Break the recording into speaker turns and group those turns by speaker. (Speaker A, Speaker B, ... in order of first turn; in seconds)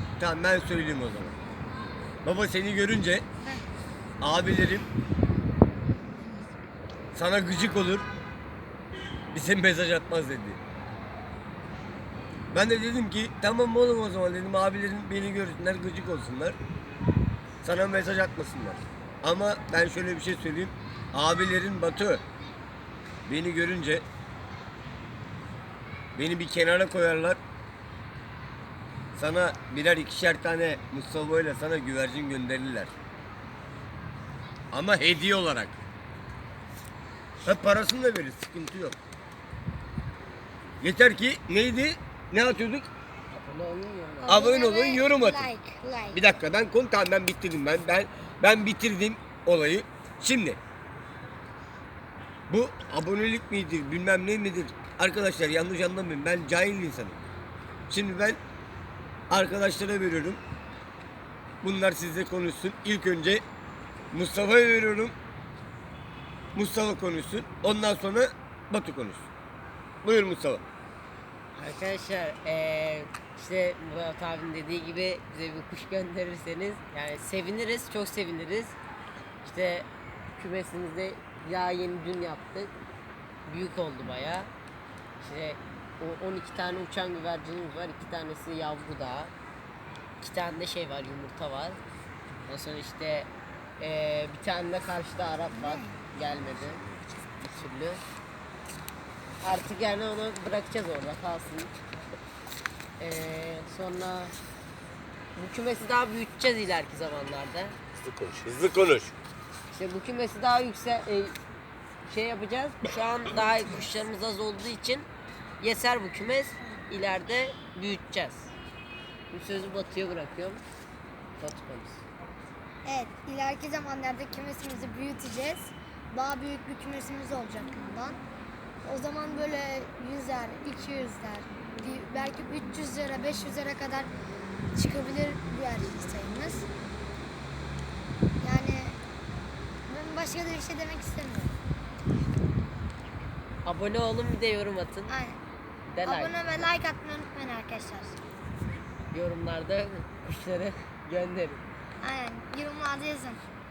Speaker A: 0.2-1.4, 2.2-3.2, 4.2-4.9, 7.1-8.1, 9.3-10.6, 12.5-16.6, 17.6-22.2, 23.3-24.1, 26.1-27.4, 29.1-32.9, 34.7-35.8, 37.5-39.0, 40.8-42.9, 44.3-45.5, 46.1-50.6, 52.5-57.3, 57.9-58.4, 59.3-60.4, 61.6-63.4, 64.1-65.1, 66.5-69.3, 70.0-70.6, 108.0-109.1
Speaker B: 43.3-44.5, 71.5-78.8, 79.4-82.7, 83.5-84.5, 85.2-89.3, 90.2-91.8, 92.5-98.0, 99.4-101.8, 103.0-104.3, 105.3-107.8, 109.7-111.4, 112.1-115.1, 115.6-118.5, 119.3-120.6, 121.4-122.0, 143.6-145.1, 145.9-146.7, 149.1-151.6
Speaker C: 44.2-46.2, 95.5-96.0, 122.8-128.2, 128.8-134.1, 134.8-136.7, 138.4-139.0, 139.9-141.6, 145.1-145.4, 146.0-148.2, 152.0-153.4